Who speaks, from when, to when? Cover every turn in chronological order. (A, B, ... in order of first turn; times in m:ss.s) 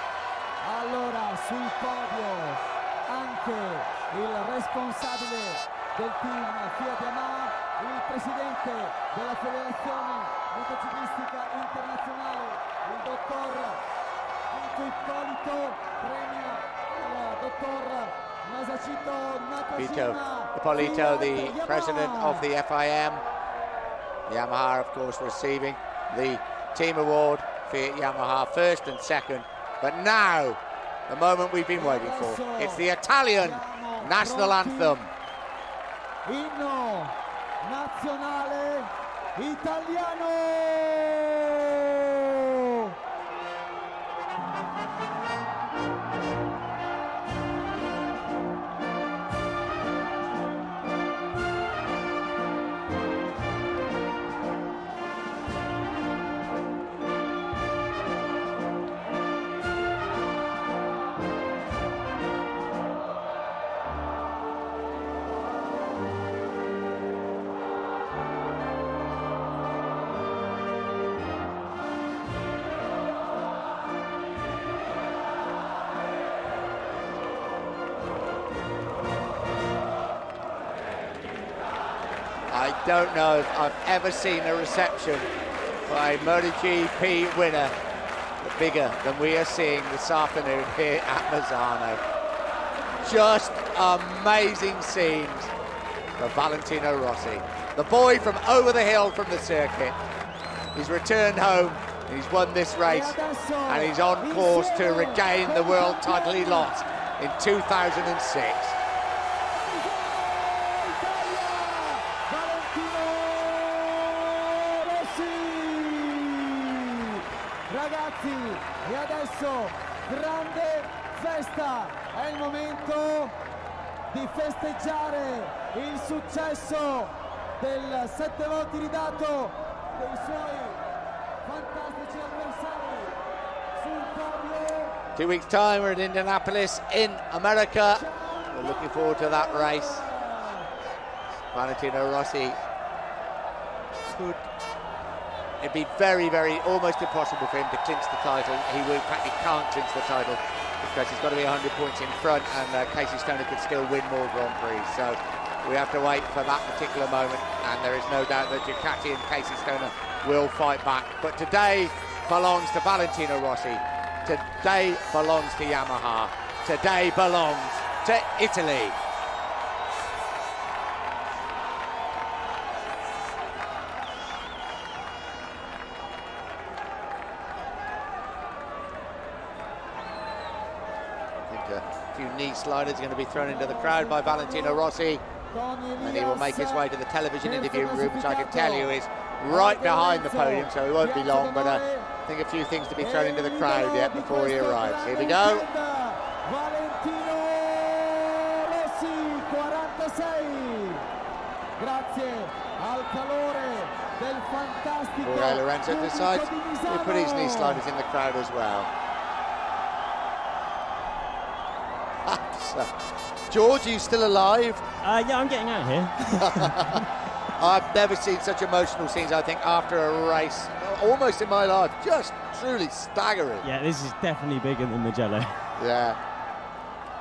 0:00.6-0:13.8 A
0:14.5-0:22.5 A
0:19.8-0:23.2 B
0:24.3-0:35.1 B
0:31.7-0:35.0 A
0:36.2-0:42.9 A
1:22.5-1:25.3 B
1:25.9-1:27.7 B
1:28.4-1:32.0 B
1:33.0-1:35.5 B
1:36.2-1:40.0 B
1:40.7-1:48.8 B
1:42.8-1:46.7 A
1:49.6-2:03.3 A
2:04.1-2:10.8 A
2:11.4-2:13.1 A
2:13.8-2:15.0 A
2:15.2-2:20.0 B
2:17.9-2:20.7 A
2:21.5-2:22.6 B
2:24.0-2:24.4 B
2:25.6-2:49.0 B
3:01.4-3:05.2 B
3:03.3-3:04.8 A
3:05.5-3:06.8 A
3:06.0-3:15.6 B
3:07.4-3:08.9 A
3:09.4-3:12.1 A
3:13.0-3:21.0 A
3:21.8-3:27.8 A
3:25.2-3:28.9 B
3:32.2-3:32.9 B
3:33.5-3:34.8 B
3:35.0-3:36.7 C
3:36.4-3:37.0 B
3:37.6-3:43.6 B
3:43.6-3:45.6 C
3:45.8-3:46.2 B